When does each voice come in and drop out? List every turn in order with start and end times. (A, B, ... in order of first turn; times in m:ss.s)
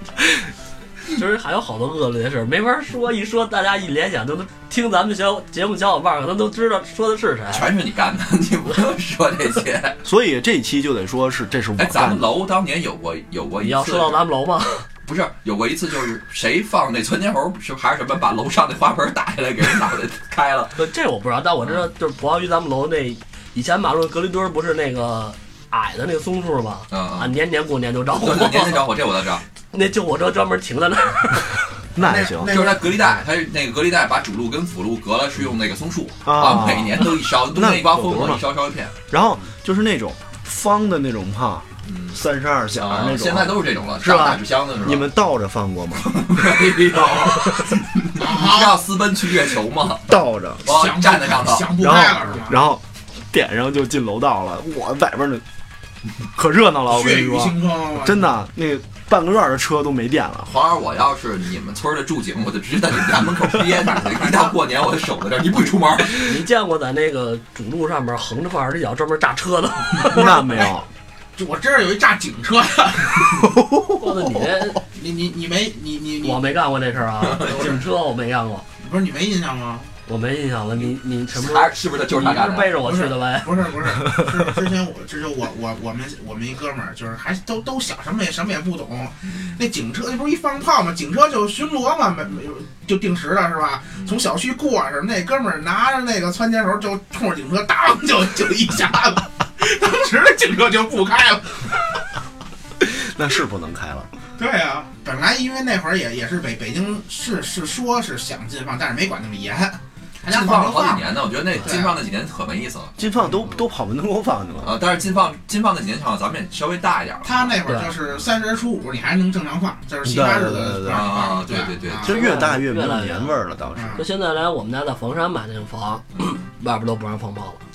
0:01.1-0:07.6 A
0:07.5-0:10.0 B
0:10.0-0:12.2 C
0:11.8-0:14.2 B
0:13.6-0:14.9 A
0:15.0-0:20.8 B
0:20.8-0:28.9 A
0:26.9-0:27.3 B
0:28.1-0:29.4 B
0:29.7-0:31.6 A
0:31.9-0:32.5 C
0:32.0-0:33.0 D
0:32.4-0:38.9 B
0:36.2-0:38.4 C
0:39.1-0:46.4 C
0:41.8-0:42.2 B
0:42.7-0:45.1 B
0:46.0-0:51.8 B
0:48.2-0:48.8 D
0:50.0-0:50.6 C
0:50.6-0:52.6 D
0:51.8-0:55.4 C
0:56.3-1:00.5 C
0:56.9-0:58.2 D
1:00.4-1:06.4 B
1:03.8-1:04.5 D
1:06.2-1:10.7 A
1:10.0-1:10.8 C
1:10.2-1:10.7 D
1:11.4-1:13.5 D
1:13.4-1:14.5 C
1:14.0-1:14.8 A
1:14.9-1:16.4 D
1:16.2-1:18.6 A
1:17.2-1:17.7 B
1:17.4-1:17.8 D
1:18.8-1:19.9 D
1:20.1-1:23.6 A
1:21.3-1:22.8 B
1:22.8-1:41.8 D
1:42.8-1:44.1 C
1:44.4-1:52.0 D
1:50.2-1:52.9 B
1:53.0-1:54.8 C
1:54.6-1:57.5 B
1:57.2-2:02.2 D
1:57.6-1:57.9 A
2:00.0-2:01.2 C
2:00.8-2:02.2 B
2:02.0-2:04.0 C
2:02.0-2:03.3 A
2:03.7-2:04.0 D
2:03.9-2:07.6 A